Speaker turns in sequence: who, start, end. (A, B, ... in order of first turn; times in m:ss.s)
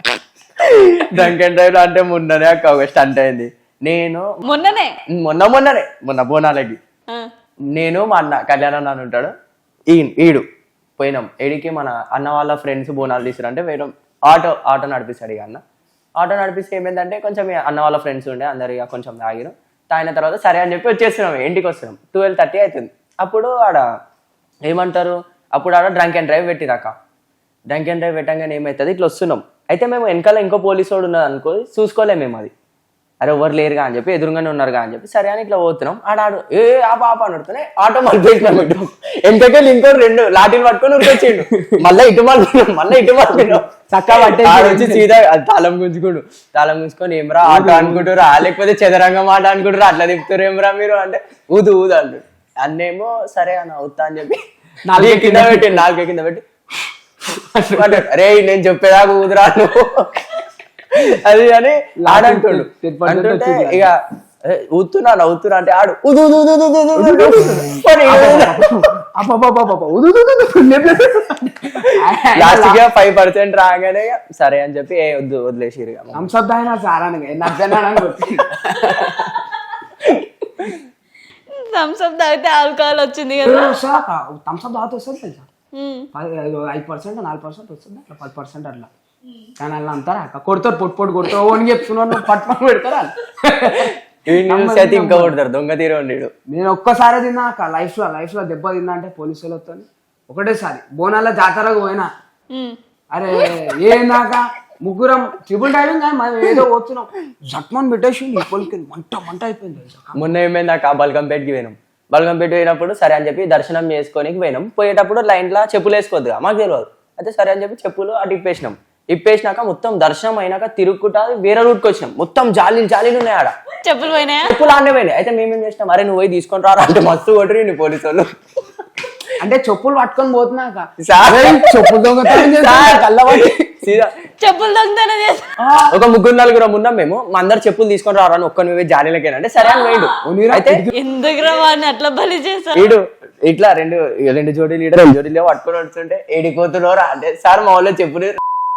0:00.6-0:04.3 A
0:04.4-0:04.9 B
0:05.2-0:06.8 A
0:07.7-0:09.3 A
0:09.9-0:10.4 A
0:11.0-0:15.6 A
0:16.2-0:23.8 A
0:24.6-0:26.9 A
0:27.7-0:32.5 A
0:33.2-0:54.4 A
0:41.3-0:41.7 C
0:43.3-0:45.1 C
0:47.4-0:48.2 C
0:54.8-0:55.9 C
0:55.0-0:56.4 A
0:57.3-0:58.0 C
0:57.7-1:04.0 A
1:02.0-1:03.9 C
1:04.5-1:08.7 A
1:06.9-1:12.8 C
1:12.3-1:16.3 A
1:16.1-1:19.4 C
1:20.0-1:20.7 A
1:21.5-1:23.7 B
1:23.4-1:25.5 C
1:25.7-1:26.1 B
1:26.1-1:28.9 C
1:29.6-1:35.3 C
1:33.7-1:36.3 A
1:36.5-1:42.1 C
1:43.1-1:50.2 C
1:50.1-2:03.5 A
2:03.8-2:04.5 B
2:04.4-2:08.3 A
2:09.4-2:13.9 C
2:11.0-2:14.1 A
2:14.4-2:15.5 B
2:15.6-2:16.0 C
2:15.9-2:20.8 A
2:19.6-2:20.1 B
2:20.2-2:20.9 C
2:20.9-2:22.9 B
2:22.7-2:28.4 A